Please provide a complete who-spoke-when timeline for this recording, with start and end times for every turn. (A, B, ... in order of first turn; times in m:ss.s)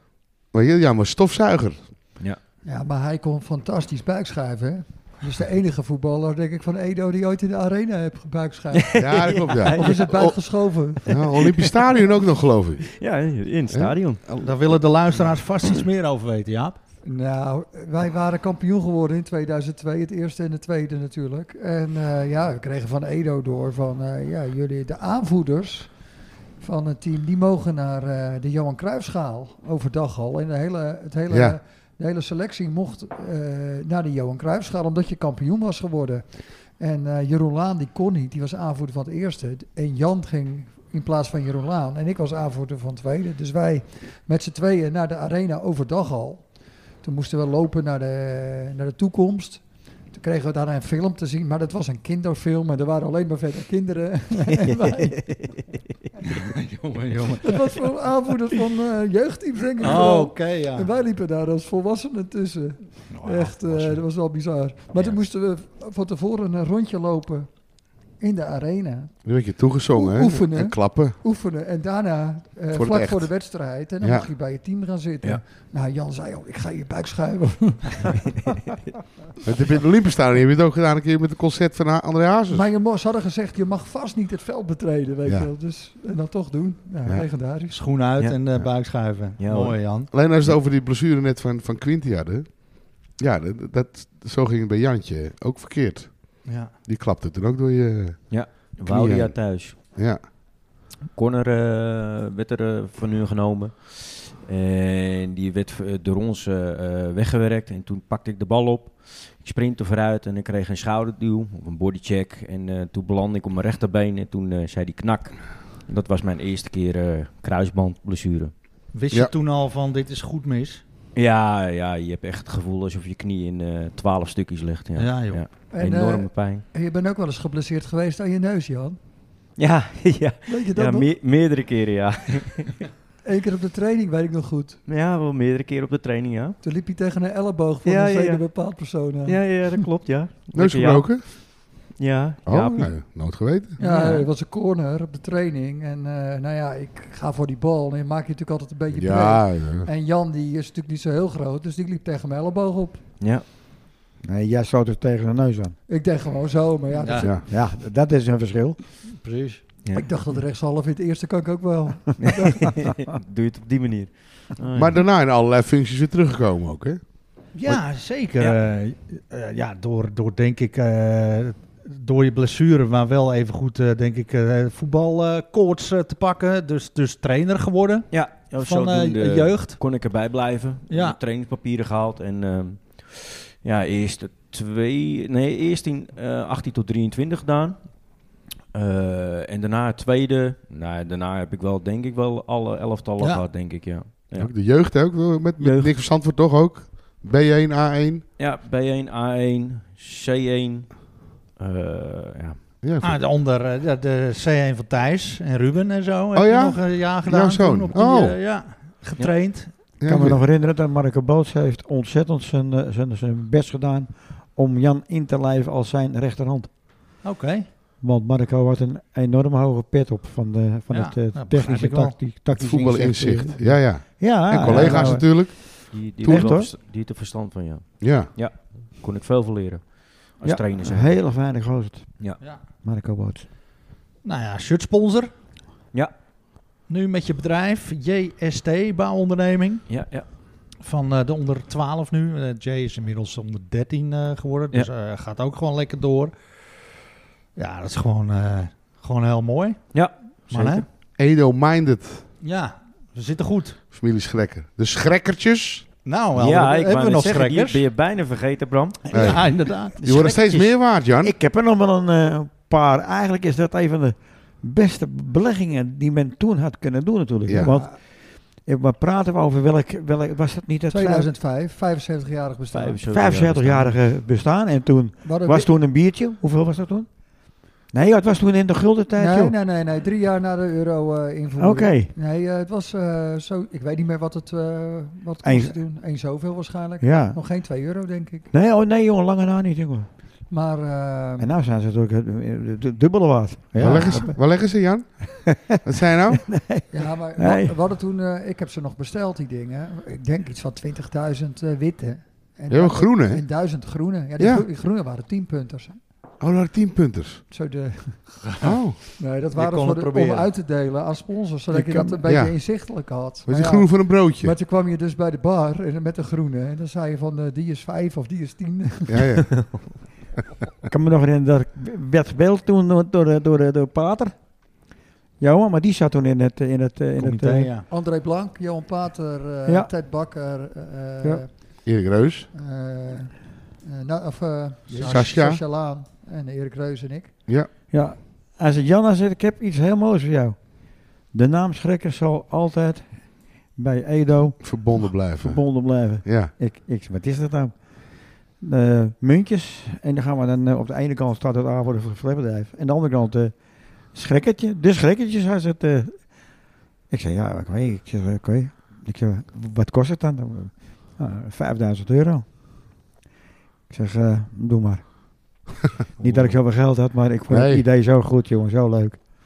0:00.5-0:02.0 A
0:02.6-0:11.1 B
0:08.7-0:10.3 C
0:09.0-0:10.4 A
0:11.0-0:13.0 A
0:11.1-0:11.4 C
0:12.8-0:14.2 C
0:13.7-0:14.8 A
0:14.4-0:16.8 D
0:17.0-0:26.0 B
0:26.6-0:55.2 B
0:31.3-0:31.6 A
0:55.2-0:55.5 C
0:56.3-0:57.7 D
0:57.4-1:09.2 B
0:59.8-1:00.9 D
1:03.1-1:04.0 D
1:09.2-1:11.2 A
1:09.9-1:18.3 B
1:12.7-1:13.3 A
1:14.0-1:14.3 A
1:19.4-1:22.7 A
1:22.5-1:27.8 B
1:27.7-1:30.1 D
1:29.4-1:30.0 C
1:30.1-1:40.2 A
1:36.4-1:36.7 D
1:38.3-1:39.8 C
1:41.1-1:58.6 C
1:58.9-2:00.8 D
2:01.2-2:06.6 C
2:05.0-2:05.5 D
2:05.7-2:09.0 B
2:09.6-2:12.9 C
2:10.5-2:11.1 B
2:13.2-2:14.8 B
2:14.9-2:16.6 C
2:16.6-2:19.8 B
2:17.8-2:18.5 C
2:19.3-2:23.0 C
2:20.5-2:21.9 A
2:22.5-2:23.8 A
2:23.8-2:33.0 B
2:23.8-2:24.1 D
2:23.8-2:24.3 C
2:28.9-2:29.9 A
2:33.2-2:33.5 C
2:34.2-2:35.8 E
2:35.9-2:37.4 B
2:36.9-2:37.3 D
2:37.5-2:38.8 E
2:39.0-2:39.6 D
2:39.9-2:42.8 B
2:42.2-2:45.0 C
2:44.7-2:47.8 A
2:47.5-2:59.8 D
2:58.1-3:14.5 C
3:00.9-3:01.2 D
3:14.4-3:18.2 A
3:15.6-3:15.9 C
3:18.4-3:22.6 C
3:22.8-3:23.2 A
3:23.0-3:29.7 D
3:26.3-3:28.4 A
3:29.2-3:29.4 C
3:30.0-3:30.4 A
3:30.0-3:36.7 E
3:37.2-3:37.7 D
3:38.0-3:45.5 E
3:40.9-3:42.2 D
3:42.5-3:46.6 A
3:44.7-3:51.2 C
3:46.2-3:46.7 E
3:48.0-3:48.3 A
3:50.4-3:53.4 E
3:54.2-3:55.3 D
3:56.9-4:00.0 D
3:59.9-4:00.3 C
4:00.8-4:06.4 D
4:07.6-4:10.8 D
4:09.9-4:10.9 C
4:11.2-4:12.2 A
4:12.4-4:13.8 D
4:13.9-4:15.9 A
4:16.0-4:17.8 D
4:16.4-4:19.3 C
4:19.1-4:20.0 D
4:19.1-4:21.4 A
4:20.0-4:31.3 E
4:27.5-4:27.8 A
4:27.6-4:28.0 B
4:30.9-4:33.0 B
4:32.7-4:34.0 C
4:33.1-4:39.6 E
4:35.2-4:35.7 B
4:39.2-4:48.5 B
4:41.6-4:42.1 E
4:45.4-4:45.8 E
4:47.0-4:47.4 E
4:48.5-4:50.1 E
4:50.5-4:51.5 B
4:51.4-4:54.4 E
4:53.8-4:54.1 D
4:53.8-4:56.6 A
4:55.5-4:55.8 E
4:56.5-4:57.8 E
4:56.9-5:06.0 B
5:02.7-5:03.5 A
5:04.4-5:04.7 A
5:06.4-5:07.4 A
5:07.5-5:08.5 B
5:08.6-5:09.0 A
5:09.2-5:19.3 B
5:09.5-5:10.5 D
5:11.8-5:12.2 E
5:12.2-5:12.8 A
5:13.5-5:14.6 A
5:19.1-5:20.0 A
5:20.9-5:24.6 E
5:25.4-5:27.7 E
5:27.2-5:27.9 D
5:27.9-5:31.7 B
5:31.8-5:32.5 A
5:32.5-5:37.4 B
5:34.9-5:35.3 D
5:35.0-5:35.6 A
5:37.9-6:02.5 E
5:44.6-5:46.5 A
6:03.9-6:05.6 E
6:06.2-6:06.6 D
6:06.2-6:09.2 E
6:07.5-6:07.8 A